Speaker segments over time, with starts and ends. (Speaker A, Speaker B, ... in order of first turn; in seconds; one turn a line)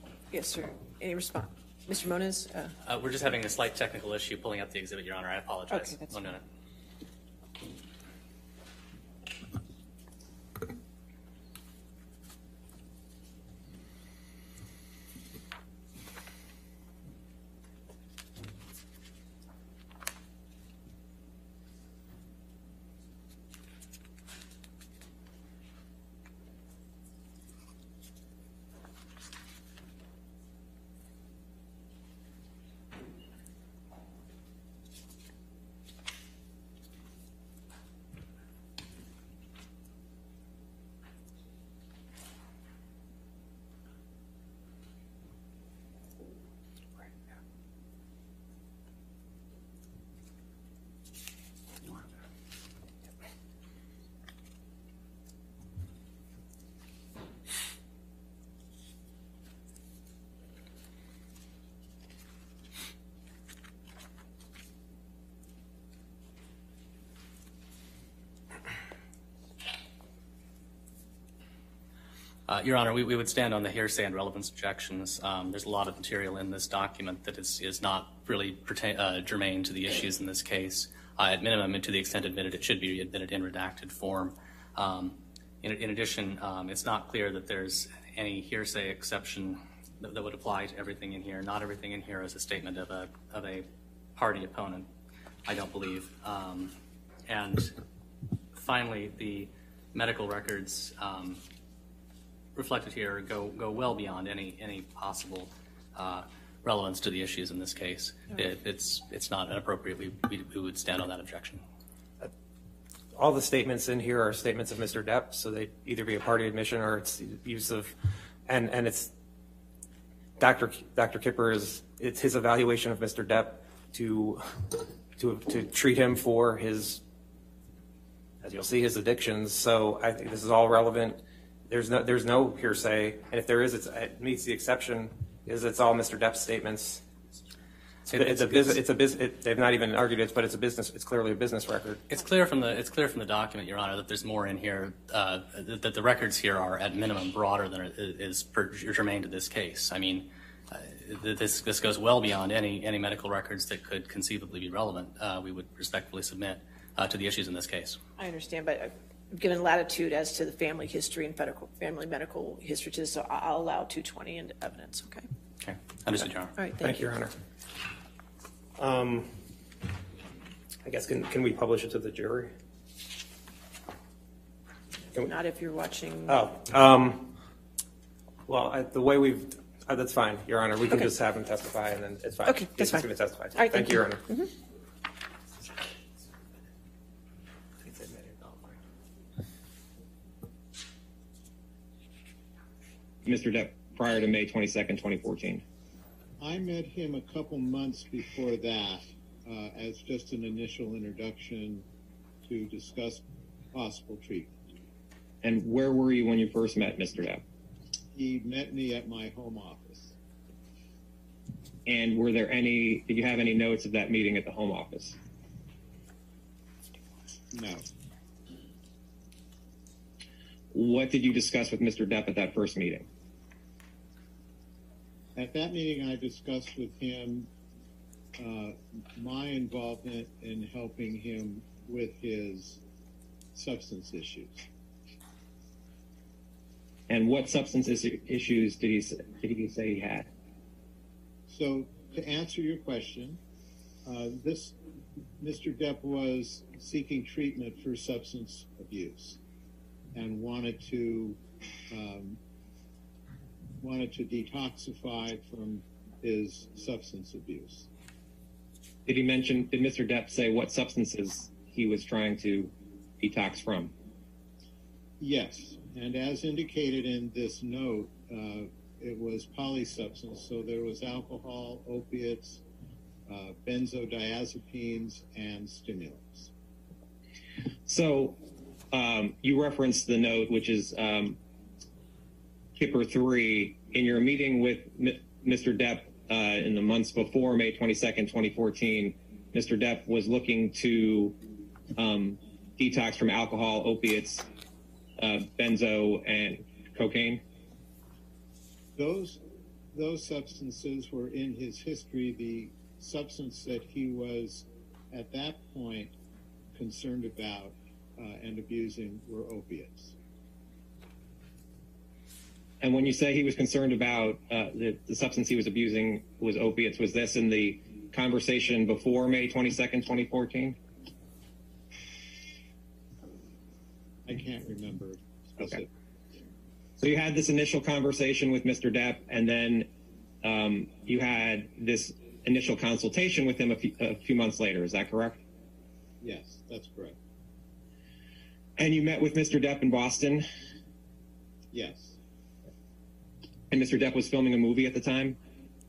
Speaker A: 0.3-2.7
Speaker B: 2.8-6.4
Speaker A: 5.7-6.1
Speaker B: 72.5-94.9
Speaker B: 95.5-96.7
Speaker B: 97.2-97.7
Speaker B: 98.5-101.4
Speaker B: 102.5-111.6
Speaker C: 113.1-117.9
Speaker C: 118.5-119.1
Speaker C: 120.4-127.0
Speaker C: 128.4-137.0
Speaker C: 138.1-142.1
Speaker B: 138.1-138.8
Speaker B: 142.1-158.0
Speaker A: 158.2-165.2
Speaker B: 165.6-166.5
Speaker A: 166.6-167.1
Speaker C: 166.8-167.3
Speaker C: 168.8-169.3
Speaker C: 170.8-172.5
Speaker A: 175.1-176.4
Speaker C: 176.3-177.3
Speaker C: 178.5-184.2
Speaker A: 182.4-184.5
Speaker C: 187.8-188.8
Speaker D: 193.2-195.6
Speaker E: 196.4-201.8
Speaker E: 202.4-204.6
Speaker D: 205.4-207.4
Speaker E: 208.1-210.2
Speaker D: 211.8-215.2
Speaker E: 217.5-217.8
Speaker D: 220.7-223.1
Speaker E: 225.3-227.5
Speaker E: 228.3-232.8
Speaker E: 233.5-234.6
Speaker D: 237.1-240.3
Speaker E: 241.5-243.4
Speaker E: 244.0-244.8
Speaker E: 245.4-249.4
Speaker E: 250.1-251.4
Speaker E: 251.9-252.4
Speaker E: 253.8-257.9
Speaker D: 259.1-263.9
Speaker E: 265.2-272.6
Speaker E: 273.3-276.5
Speaker D: 277.9-278.4
Speaker D: 278.9-281.4
Speaker D: 282.8-291.4
Speaker D: 291.9-294.5
Speaker D: 295.2-297.4
Speaker E: 298.9-299.4
Speaker E: 299.9-306.1
Speaker E: 306.7-310.1
Speaker D: 312.8-320.8
Speaker E: 324.2-325.9
Speaker D: 327.0-329.9
Speaker D: 330.4-335.4
Speaker E: 336.2-337.2
Speaker D: 338.8-340.5
Speaker E: 341.7-342.2
Speaker D: 343.7-345.4